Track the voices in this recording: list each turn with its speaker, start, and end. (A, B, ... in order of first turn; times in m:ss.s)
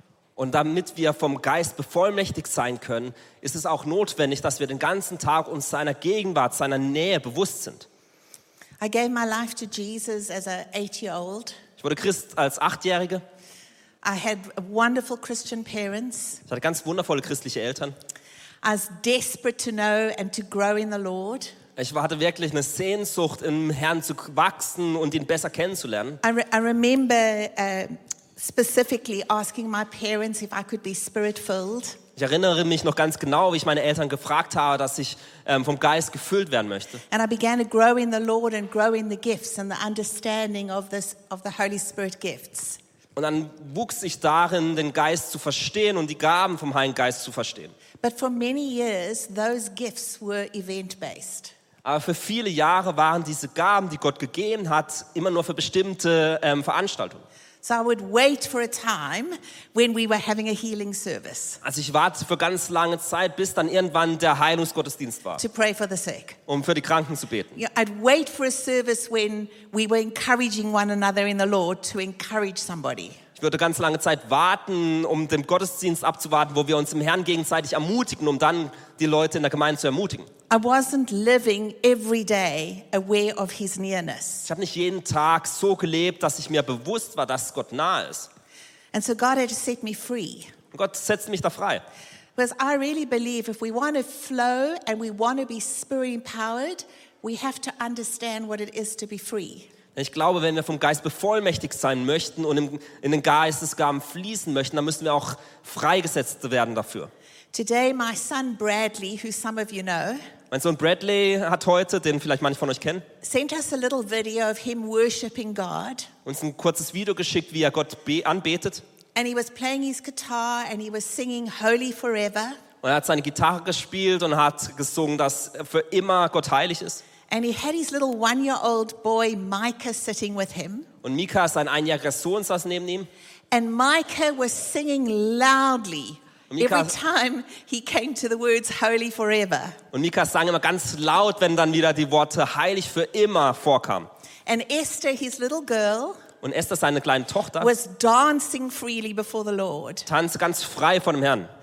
0:00.4-0:07.9 A
0:08.8-0:11.6 B
0:11.8-0:13.2 A
0:14.0-0:16.4 B
0:16.5-0:18.0 A
0:18.6-0:21.5 B
0:21.8-0:26.2 A
0:26.2-0:32.0 B
0:32.2-0:37.0 A
0:37.1-0:42.8 B
0:43.2-0:47.7 A
0:48.0-0:51.5 B
0:51.8-0:57.2 A
0:57.6-1:01.6 B
1:01.6-1:05.4 A
1:05.4-1:06.4 B
1:06.5-1:07.6 A
1:07.6-1:13.2 B
1:13.4-1:20.3 A
1:20.5-1:24.5 B
1:24.5-1:28.3 A
1:28.9-1:30.5 B
1:30.7-1:31.8 A
1:32.4-1:39.7 B
1:40.0-1:47.1 A
1:47.5-1:50.2 B
1:50.5-1:53.0 A
1:53.2-1:56.1 B
1:56.2-1:58.8 A
1:59.2-2:02.6 B
2:02.8-2:07.0 A
2:07.3-2:10.9 B
2:11.0-2:13.1 A
2:13.5-2:19.8 B
2:16.5-2:16.9 A
2:19.9-2:24.1 A
2:24.5-2:26.2 B
2:26.4-2:27.7 A
2:27.6-2:30.1 B
2:30.1-2:31.5 A